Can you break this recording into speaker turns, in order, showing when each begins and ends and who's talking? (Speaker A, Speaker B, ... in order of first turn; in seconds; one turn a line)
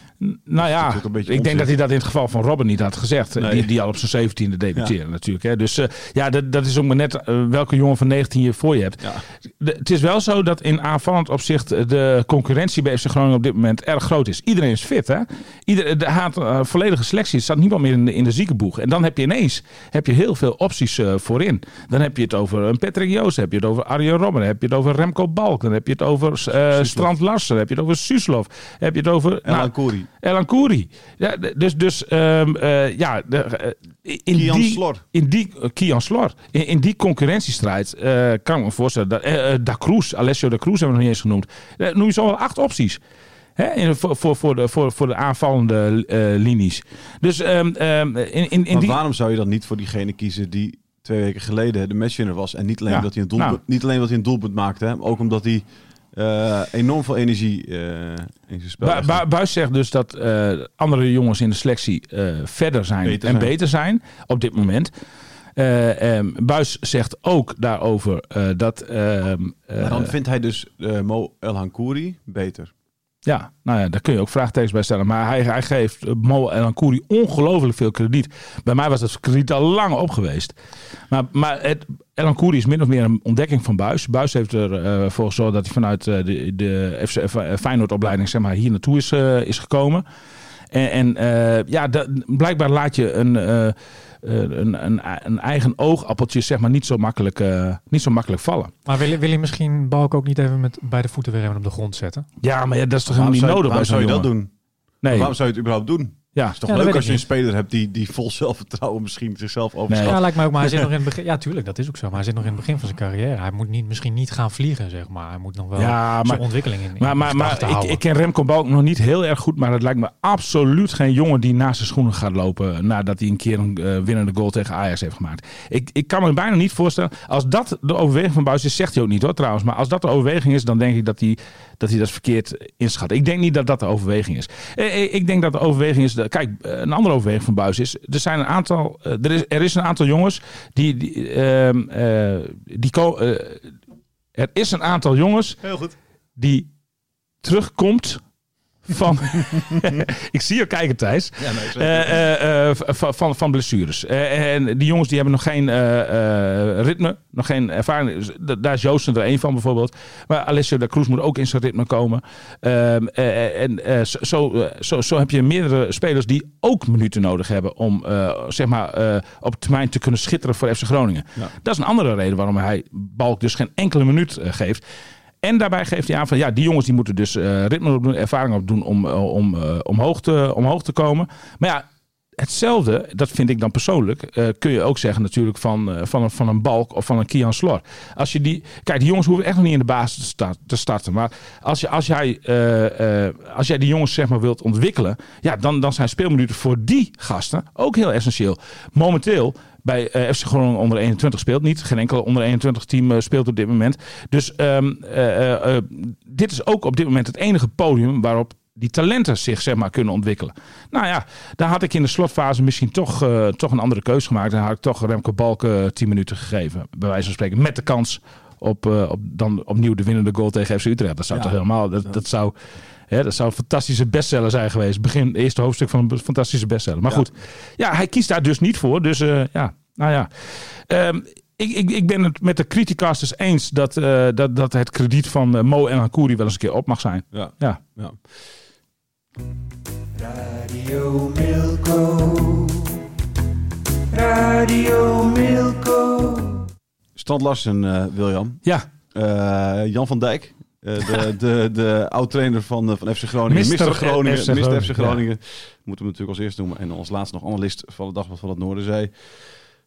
Speaker A: 0.2-43.0
Speaker B: 0.6-1.7
Speaker B: 3.4-3.7
Speaker B: 9.0-9.2
Speaker B: 26.7-27.1
Speaker B: 29.4-30.1
Speaker B: 34.3-35.0
Speaker A: 43.6-49.0
Speaker B: 48.7-59.2
Speaker A: 52.9-53.6
Speaker A: 58.8-64.9
Speaker B: 63.0-63.5
Speaker A: 65.5-70.1
Speaker B: 69.8-72.7
Speaker A: 73.2-80.5
Speaker A: 81.1-90.0
Speaker A: 90.7-98.7
Speaker C: 98.8-102.2
Speaker A: 102.4-104.3
Speaker B: 103.0-104.5
Speaker A: 105.0-105.3
Speaker B: 105.0-110.2
Speaker C: 106.7-107.2
Speaker A: 109.9-110.9
Speaker C: 110.0-118.0
Speaker A: 115.8-143.7
Speaker A: 144.3-145.6
Speaker B: 145.6-145.9
Speaker A: 146.3-146.7
Speaker A: 147.4-148.2
Speaker A: 148.8-174.8
Speaker B: 151.4-152.2
Speaker A: 175.4-181.8
Speaker A: 182.4-222.5
Speaker A: 223.1-237.8
Speaker B: 237.3-238.2
Speaker D: 240.1-243.0
Speaker D: 244.1-246.7
Speaker B: 247.2-259.1
Speaker A: 253.5-255.2